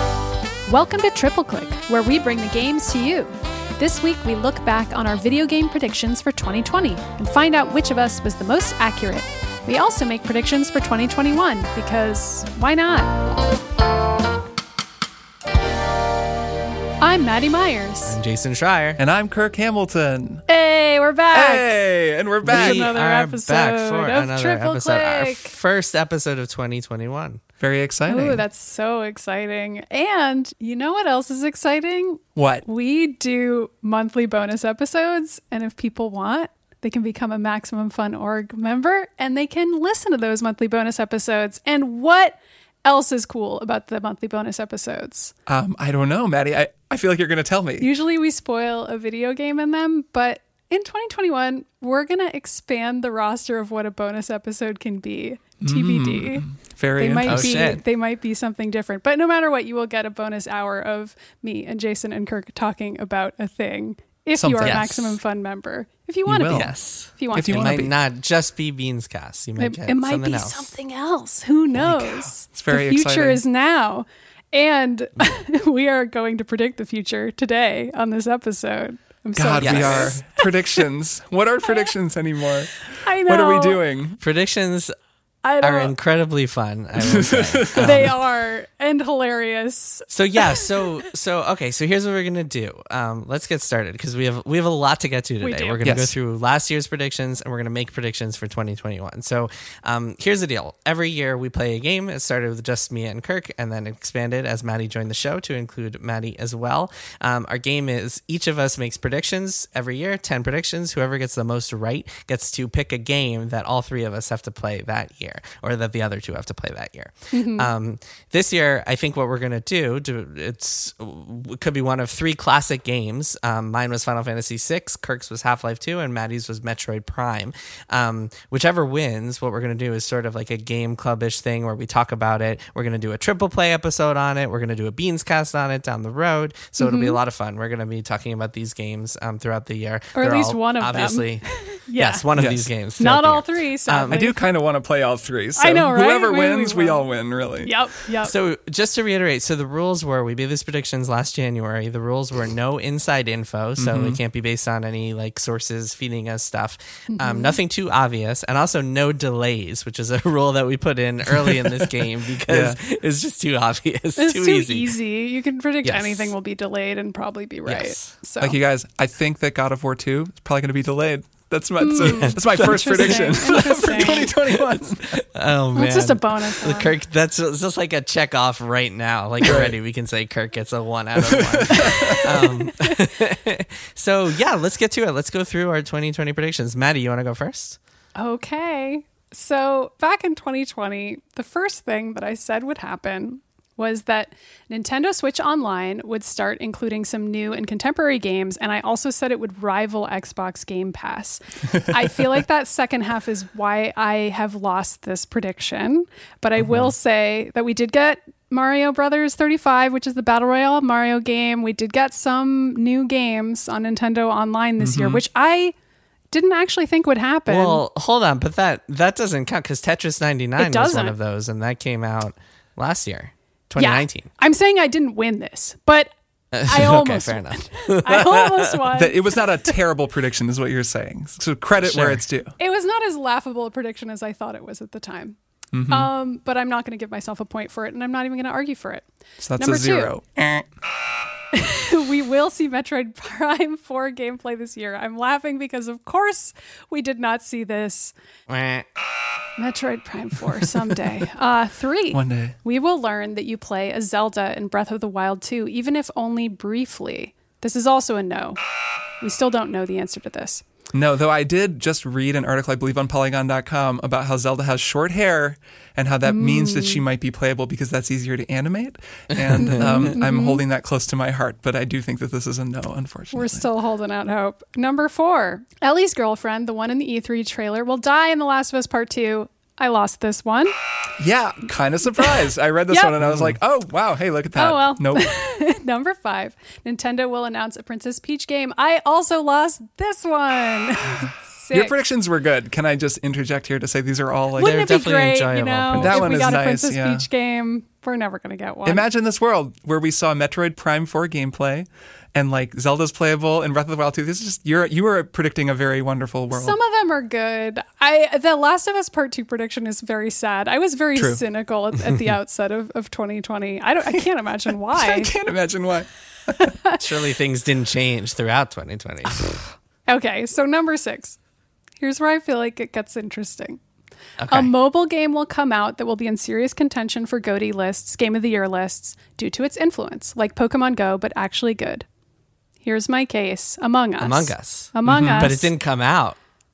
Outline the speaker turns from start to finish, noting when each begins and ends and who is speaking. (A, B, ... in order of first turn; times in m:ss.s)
0:00.7-0:13.1 A
0:17.0-0:18.2 A
0:18.1-0:19.0 B
0:19.0-0:20.4 C
0:20.5-0:21.7 A
0:21.3-0:22.9 C
0:22.4-0:25.5 A
0:22.4-0:27.4 B
0:27.6-0:28.4 C
0:28.1-0:45.3 A
0:32.4-0:32.6 C
0:45.5-0:47.9 C
0:47.8-0:56.4 A
0:55.6-0:57.7 C
0:57.0-1:07.7 A
0:57.3-0:57.8 B
1:04.3-1:04.9 C
1:04.6-1:05.1 B
1:06.2-1:06.7 C
1:06.5-1:10.7 B
1:07.3-1:07.9 C
1:09.6-1:20.8 A
1:11.7-1:13.4 C
1:19.4-1:22.7 C
1:19.6-1:20.2 B
1:23.0-1:23.8 A
1:23.2-1:24.2 C
1:24.2-1:24.9 B
1:25.4-1:25.9 A
1:25.6-1:28.2 B
1:27.0-1:28.1 C
1:27.8-1:30.6 A
1:30.1-2:21.4 B
1:35.4-1:35.8 A
1:35.8-1:36.1 C
1:57.3-1:57.7 A
2:16.8-2:17.2 A
2:20.2-2:22.2 A
2:22.0-2:24.2 B
2:22.3-2:22.7 C
2:23.0-2:24.4 A
2:24.1-2:27.7 C
2:25.6-2:27.0 A
2:27.6-2:28.3 A
2:28.2-2:44.9 B
2:33.8-2:34.2 C
2:37.1-2:37.6 A
2:41.5-2:41.8 C
2:42.5-2:42.8 C
2:44.2-2:48.6 A
2:45.8-2:46.3 B
2:47.6-2:48.1 B
2:48.4-2:55.2 C
2:51.8-2:54.3 A
2:52.0-2:53.4 B
2:55.1-3:07.8 B
2:55.8-2:56.9 A
2:59.4-2:59.7 C
3:01.2-3:02.2 C
3:01.8-3:02.9 A
3:08.2-3:35.7 A
3:34.8-3:35.2 C
3:36.3-3:37.8 A
3:37.5-3:44.3 B
3:40.6-3:41.1 A
3:43.8-3:46.1 A
3:46.5-3:48.6 B
3:46.6-3:49.3 A
3:48.9-3:52.5 C
3:51.8-3:52.2 B
3:52.6-3:55.4 A
3:55.7-3:56.1 C
3:55.9-3:59.0 A
3:59.4-4:00.7 C
3:59.6-4:00.1 A
4:01.5-4:08.1 A
4:08.5-4:08.8 B
4:09.6-4:18.6 A
4:12.1-4:12.6 C
4:19.2-4:20.6 A
4:20.9-4:33.6 C
4:26.2-4:27.0 A
4:29.3-4:30.1 B
4:29.6-4:30.6 A
4:33.3-4:40.7 A
4:41.2-4:45.3 C
4:42.9-4:43.2 A
4:44.6-4:52.0 A
4:51.7-4:54.9 C
4:54.6-4:59.0 A
4:54.6-4:56.6 B
4:56.0-4:57.2 C
4:58.8-5:06.8 C
5:06.5-5:15.3 A
5:11.1-5:11.4 C
5:14.9-5:16.7 C
5:16.6-5:16.9 A
5:17.0-5:19.6 B
5:20.1-5:21.4 A
5:22.0-5:23.8 A
5:24.4-5:24.7 B
5:24.5-5:32.0 A
5:32.8-5:35.7 A
5:34.2-5:36.4 B
5:35.0-5:35.5 C